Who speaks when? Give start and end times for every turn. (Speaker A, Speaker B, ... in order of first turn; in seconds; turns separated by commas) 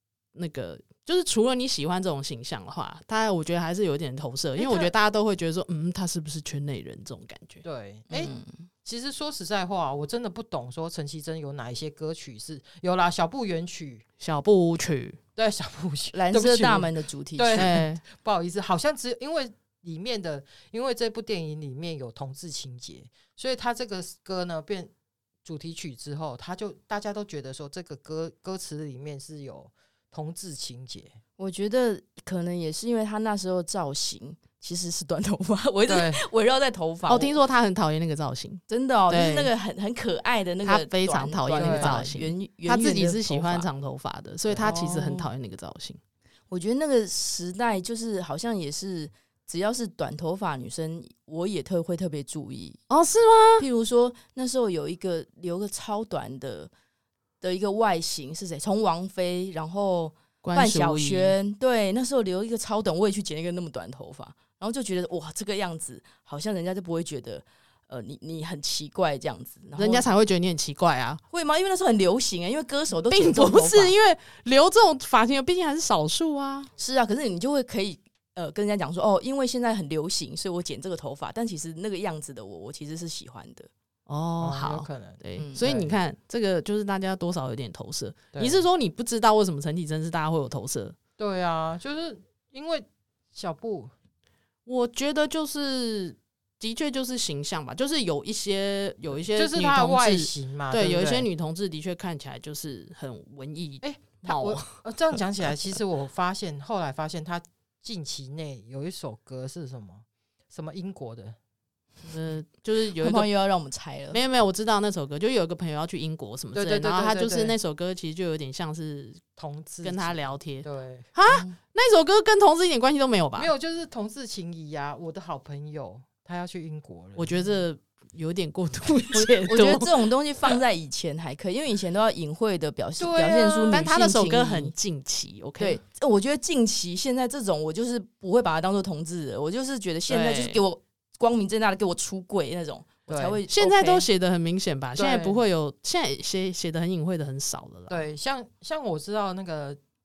Speaker A: 0.3-7.7, Speaker B: 4.6-4.9, Speaker B: 7.6-8.3, Speaker C: 8.1-8.7, Speaker B: 8.8-14.0, Speaker A: 14.2-15.2, Speaker B: 15.4-24.9, Speaker C: 16.1-17.8, Speaker A: 17.6-18.0, Speaker B: 25.4-31.2, Speaker C: 31.4-37.3, Speaker B: 35.9-36.2, Speaker A: 37.1-39.5, Speaker C: 38.7-43.7, Speaker A: 40.6-46.0, Speaker B: 41.5-42.1, Speaker C: 44.6-45.3, Speaker C: 46.5-52.8, Speaker A: 52.9-53.7, Speaker C: 53.6-56.7, Speaker C: 57.4-70.1, Speaker A: 60.4-61.4, Speaker A: 69.8-71.2, Speaker C: 71.3-73.9, Speaker A: 73.1-76.7, Speaker C: 76.8-83.7, Speaker A: 84.1-91.0, Speaker B: 84.4-86.0, Speaker C: 85.4-85.6, Speaker B: 88.3-88.6, Speaker B: 91.2-93.9, Speaker A: 94.7-105.8, Speaker B: 99.3-101.3, Speaker B: 103.8-111.4, Speaker A: 112.0-113.3, Speaker C: 113.0-114.2, Speaker A: 114.1-119.3, Speaker B: 116.5-117.5, Speaker B: 119.4-121.1, Speaker A: 119.8-123.5, Speaker C: 121.3-121.5, Speaker B: 123.4-127.6, Speaker A: 127.2-130.1, Speaker C: 129.1-134.7, Speaker B: 133.0-133.8, Speaker A: 133.7-135.8, Speaker C: 135.6-144.1, Speaker A: 140.1-140.6, Speaker B: 143.1-143.4, Speaker A: 143.5-148.0, Speaker B: 144.9-145.4, Speaker B: 147.9-149.8